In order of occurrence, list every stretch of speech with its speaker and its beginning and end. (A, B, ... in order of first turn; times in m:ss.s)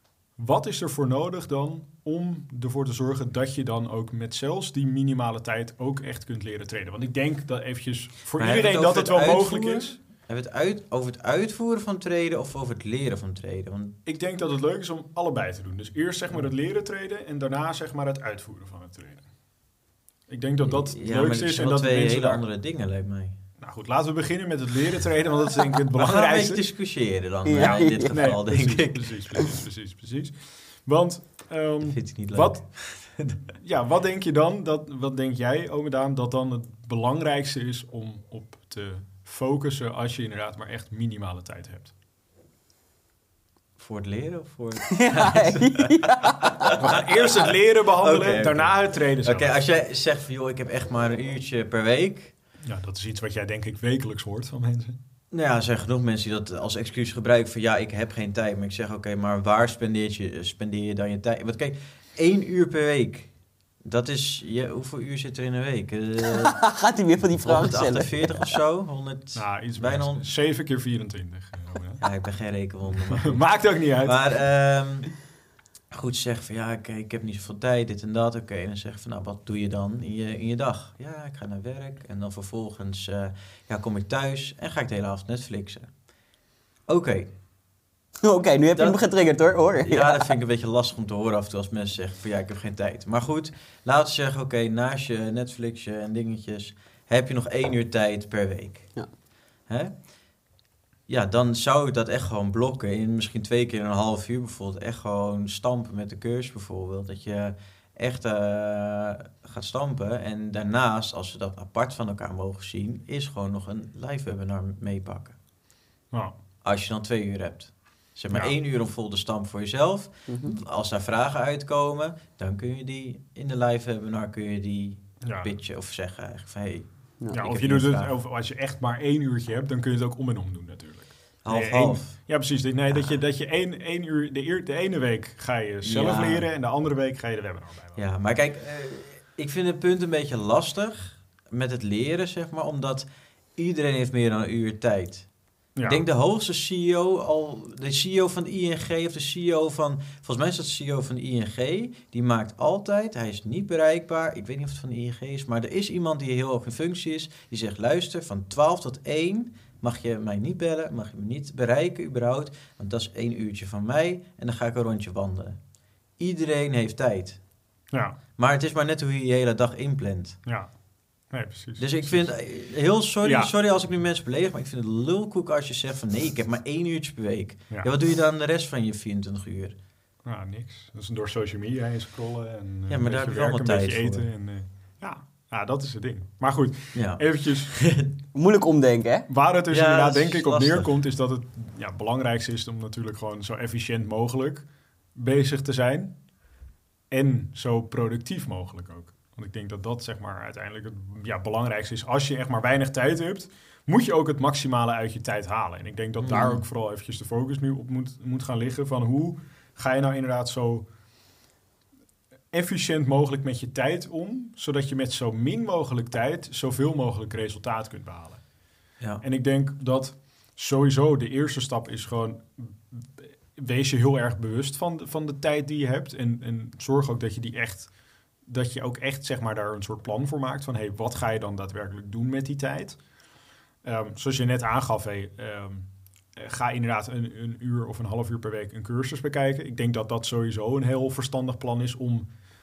0:00.4-0:10.0 A
0:08.4-0:14.0 B
0:14.0-0:19.3 A
0:20.3-0:22.4 A
0:20.6-0:23.4 B
0:23.6-0:26.6 A
0:26.0-0:29.1 B
0:27.4-0:28.4 C
0:27.5-0:41.9 A
0:31.8-0:32.8 B
0:43.8-0:52.3 B
0:44.9-0:46.9 C
0:46.8-0:49.6 A
0:52.7-0:55.0 A
0:55.3-1:06.8 B
1:06.3-1:08.6 C
1:07.4-1:10.3 B
1:09.4-1:12.0 A
1:12.0-1:15.2 B
1:13.2-1:14.4 A
1:15.9-1:25.9 B
1:26.9-1:27.3 B
1:28.2-1:30.4 C
1:28.8-1:29.0 B
1:29.8-1:39.0 B
1:39.7-1:40.1 B
1:41.1-1:55.4 B
1:56.6-2:08.2 B
2:00.3-2:00.6 C
2:05.2-2:05.5 A
2:07.3-2:18.0 A
2:11.4-2:12.3 B
2:12.9-2:13.2 B
2:15.8-2:16.5 B
2:18.0-2:25.3 B
2:25.8-2:26.0 A
2:25.8-2:45.6 B
2:46.2-2:47.4 B
2:47.9-2:48.2 A
2:48.4-2:50.4 B
2:50.4-2:50.8 A
2:51.3-2:52.4 A
2:51.8-2:59.8 B
2:53.2-2:53.5 A
3:00.2-3:07.7 A
3:02.9-3:04.3 B
3:07.0-3:08.1 B
3:08.3-3:09.3 C
3:09.3-3:16.2 A
3:09.7-3:10.9 B
3:17.1-3:30.9 A
3:26.2-3:26.6 B
3:32.5-3:38.5 A
3:39.2-3:53.1 A
3:53.8-4:02.3 A